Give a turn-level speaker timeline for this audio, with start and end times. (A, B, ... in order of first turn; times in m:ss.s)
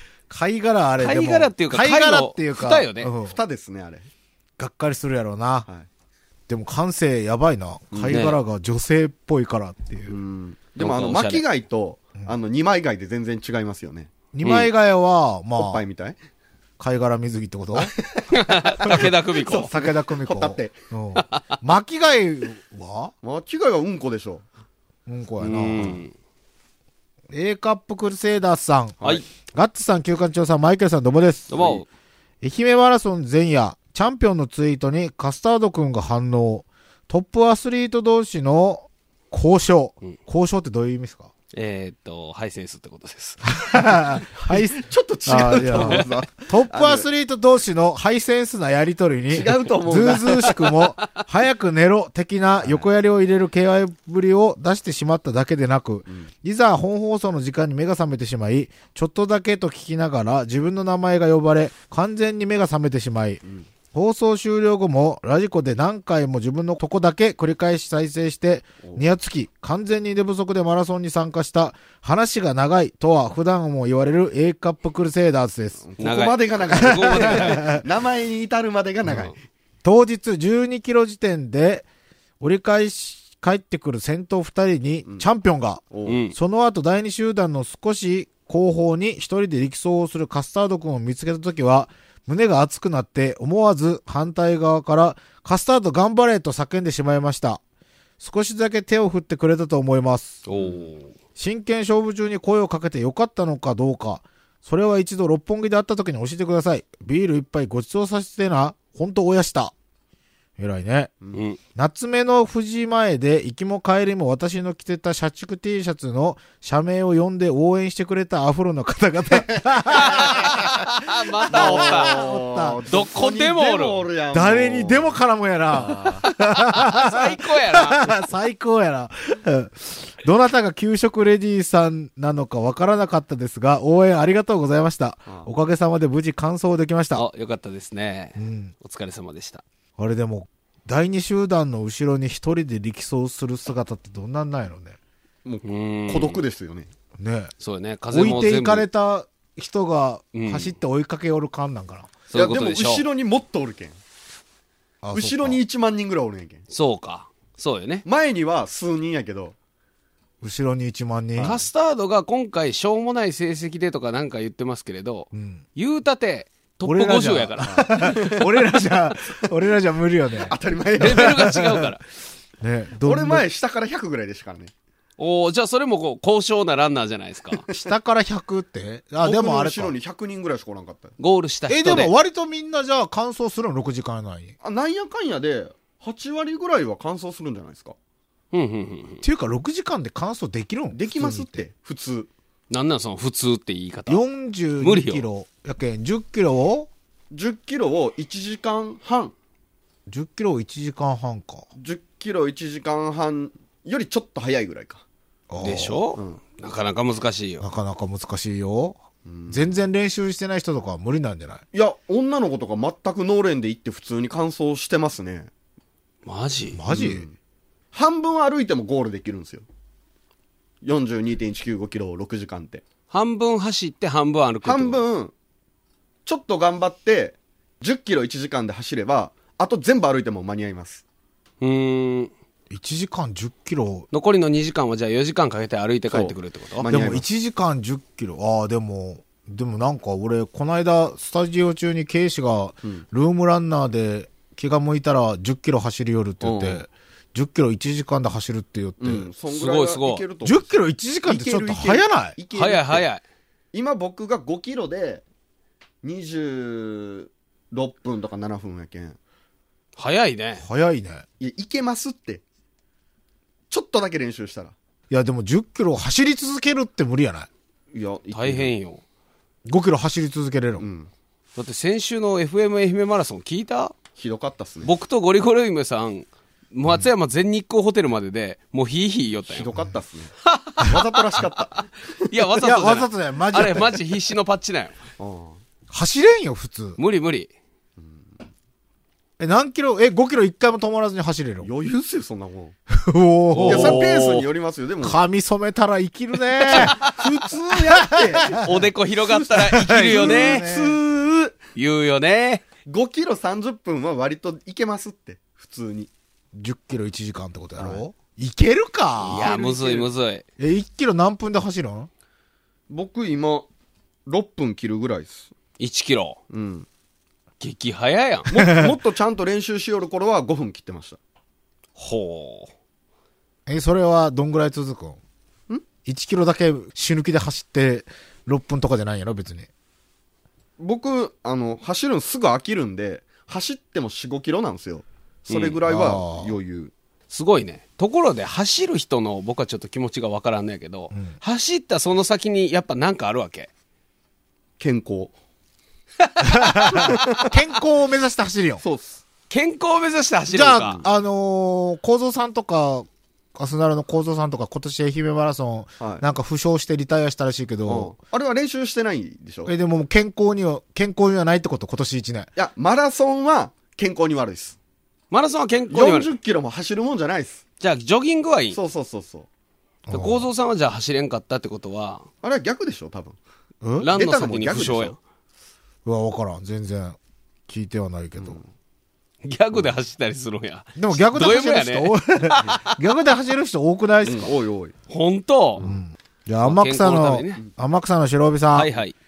0:00.3-0:03.4 A
0:01.0-0:03.1 B
0:03.2-0:04.1 C
0:04.6-0:05.7 A
0:06.5-0:10.2 A
0:07.9-0:08.2 C
0:08.1-0:08.4 B
0:10.1-0:14.1 C
0:10.8-0:11.4 B
0:14.3-0:15.8 A
0:14.4-0:14.7 B
0:15.6-0:16.2 C
0:16.8-0:17.9 A
0:17.8-0:20.7 C
0:18.3-0:19.7 B
0:18.9-0:23.1 A
0:23.2-0:24.4 C
0:25.1-0:26.0 A
0:25.4-0:26.1 B
0:27.3-0:31.8 A
0:31.5-0:31.9 B
0:32.4-0:41.3 A
0:41.5-0:43.5 B
0:43.5-1:03.4 A
0:44.4-0:47.0 C
0:49.3-0:50.7 C
1:03.9-1:15.9 A
1:15.8-1:19.4 C
1:16.0-1:17.8 B
1:17.0-1:17.8 A
1:19.8-1:21.8 A
1:22.4-1:37.6 A
1:25.9-1:26.2 C
1:26.1-1:26.4 B
1:38.2-1:40.4 A
1:40.4-1:41.1 B
1:41.4-1:49.7 A
1:50.6-1:51.1 A
1:51.3-1:51.6 B
1:51.7-2:00.7 A
1:59.6-2:00.7 C
1:59.9-2:02.3 B
2:01.5-2:05.2 C
2:01.5-2:02.8 A
2:02.9-2:04.0 B
2:04.3-2:17.2 A
2:05.7-2:06.3 C
2:06.7-2:08.2 B
2:17.1-2:19.6 B
2:18.4-2:18.7 A
2:20.0-2:25.0 A
2:25.4-2:26.9 C
2:25.6-2:26.4 B
2:27.2-2:27.5 A
2:27.6-2:28.8 B
2:28.1-2:32.1 A
2:30.3-2:30.7 B
2:32.3-2:33.0 B
2:32.3-2:34.0 C
2:35.0-2:35.6 A
2:35.1-2:36.6 C
2:36.7-2:38.0 B
2:38.0-2:39.6 C
2:40.4-2:41.6 A
2:41.4-2:48.2 B
2:45.3-2:45.6 A
2:46.8-2:51.8 A
2:47.6-2:48.5 C
2:50.4-2:51.6 C
2:51.0-2:52.0 B
2:52.6-2:53.4 A
2:53.0-2:54.7 C
2:55.2-2:57.6 B
2:57.7-2:59.9 A
2:59.2-3:01.1 C
3:01.2-3:02.1 B
3:01.7-3:04.5 A
3:04.6-3:08.0 C
3:08.5-3:09.2 B
3:09.2-3:11.6 A
3:10.9-3:12.3 C
3:12.7-3:14.2 B
3:14.1-3:16.9 A
3:14.8-3:15.3 B
3:17.3-3:19.3 C
3:20.1-3:21.7 A
3:21.8-3:25.0 C
3:25.5-3:26.0 A
3:25.6-3:27.6 B
3:27.6-3:31.6 A
3:29.2-3:29.7 C
3:31.7-3:35.5 C
3:36.2-3:36.8 B
3:36.7-3:37.2 A
3:36.9-3:37.3 C
3:37.9-3:39.6 C
3:40.8-3:42.8 C
3:43.1-3:45.0 B
3:44.6-3:45.3 C
3:46.2-3:51.0 C
3:51.6-3:52.3 B
3:52.7-3:54.1 A
3:54.1-3:56.8 B
3:56.1-3:57.2 C
3:56.8-4:09.3 A
4:06.4-4:06.8 C
4:09.0-4:10.7 C
4:09.5-4:10.2 B
4:10.4-4:12.4 A
4:11.2-4:13.1 C
4:12.5-4:13.2 B
4:13.7-4:15.2 C
4:16.0-4:19.2 C
4:20.0-4:20.6 B
4:20.6-4:21.2 A
4:21.4-4:22.4 C
4:23.7-4:24.7 C
4:25.1-4:27.5 A
4:27.9-4:28.7 C
4:28.3-4:29.0 B
4:29.6-4:30.9 A
4:30.8-4:31.1 C
4:31.6-4:33.9 B
4:34.1-4:34.9 C
4:34.8-4:39.8 B
4:39.5-4:42.1 C
4:40.4-4:41.4 B
4:42.3-4:45.0 B
4:42.6-4:44.0 A
4:45.2-4:45.6 C
4:45.9-4:47.0 A
4:47.0-4:47.5 B
4:48.0-4:48.2 C
4:49.4-4:51.7 A
4:51.6-4:52.7 C
4:52.9-4:54.1 A
4:53.5-4:54.5 B
4:53.6-4:55.2 C
4:55.0-4:57.0 A
4:56.7-5:01.6 C
4:56.7-4:57.1 B
4:57.9-4:58.6 A
4:58.5-5:00.6 B
4:59.5-5:01.0 A
5:01.8-5:02.6 B
5:02.8-5:06.1 C
5:06.5-5:09.6 A
5:07.8-5:08.0 C
5:09.2-5:10.1 C
5:09.2-5:10.4 B
5:10.6-5:12.1 A
5:12.9-5:13.7 C
5:14.2-5:15.5 C
5:15.8-5:16.4 B
5:16.5-5:16.9 C
5:17.6-5:18.5 B
5:18.5-5:21.2 C
5:18.6-5:19.0 A
5:22.0-5:22.7 B
5:23.7-5:25.2 A
5:26.0-5:29.7 A
5:30.8-5:36.9 C
5:35.5-5:35.8 B
5:35.8-5:36.6 A
5:37.3-5:43.7 B
5:44.8-5:45.3 C
5:46.4-5:48.8 A
5:46.8-5:47.4 C
5:48.8-5:49.2 C
5:49.5-5:51.0 B
5:50.5-5:58.1 A
5:57.8-5:59.7 C
5:59.6-6:02.5 A
6:02.6-6:04.8 C
6:05.3-6:06.3 B
6:05.9-6:07.6 C
6:07.8-6:08.8 B
6:08.7-6:09.5 C
6:10.1-6:10.5 A
6:10.1-6:12.2 B
6:12.4-6:13.4 C
6:13.8-6:14.1 A
6:14.0-6:15.2 B
6:14.1-6:15.1 C
6:16.0-6:17.2 A
6:17.7-6:18.6 A
6:18.4-6:18.7 C
6:19.4-6:22.7 B
6:21.0-6:24.5 A
6:24.2-6:24.9 C
6:25.1-6:25.8 B
6:25.8-6:28.9 A
6:26.6-6:27.6 B
6:28.7-6:29.1 B